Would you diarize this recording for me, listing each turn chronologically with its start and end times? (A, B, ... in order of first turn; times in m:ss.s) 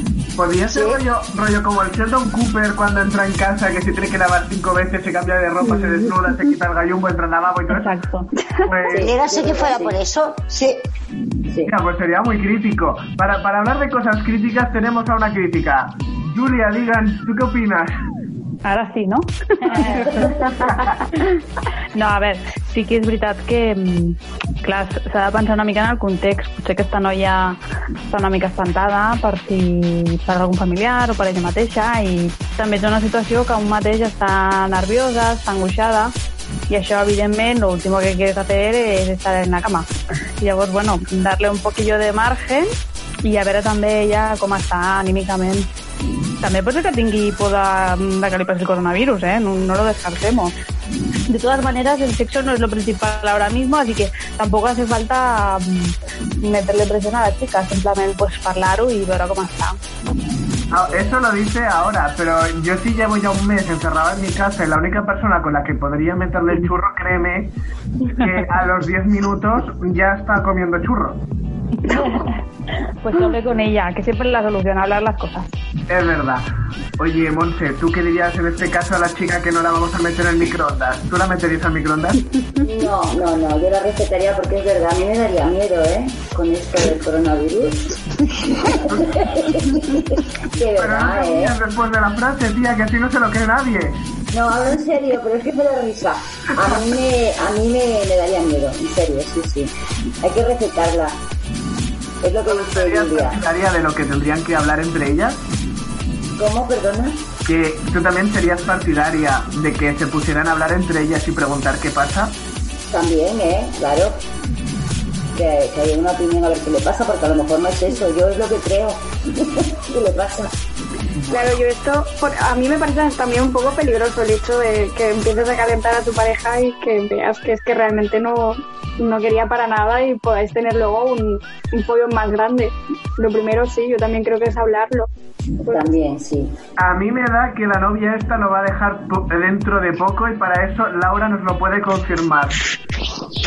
0:00.4-0:07.8 A
0:00.7-0:01.0 B
0:07.7-0:08.3 C
0:08.7-0:09.1 A
0:08.9-0:10.0 D
0:09.0-0:10.8 B
0:11.7-0:18.0 A
0:18.6-0:20.9 C
0:20.4-0:21.0 A
0:22.0-0:27.6 C
0:28.1-0:36.1 C
0:36.7-0:39.9 C
0:40.4-0:42.7 C
0:43.2-0:45.7 C
0:46.4-0:50.5 C
0:51.3-0:59.8 C
1:00.7-1:07.5 A
1:08.2-1:11.2 A
1:11.8-1:12.2 C
1:13.0-1:15.5 C
1:15.9-1:16.4 A
1:17.0-1:22.2 A
1:22.6-1:27.8 D
1:28.5-1:31.6 D
1:30.8-1:34.0 A
1:34.3-1:39.7 D
1:40.2-1:41.2 D
1:42.2-1:43.4 D
1:42.5-1:45.4 A
1:46.4-1:47.2 D
1:47.4-1:52.3 A
1:52.8-1:54.2 D
1:55.4-2:00.5 D
2:01.2-2:01.6 A
2:01.3-2:15.1 E
2:15.7-2:15.9 E
2:15.7-2:16.5 D
2:16.8-2:22.6 A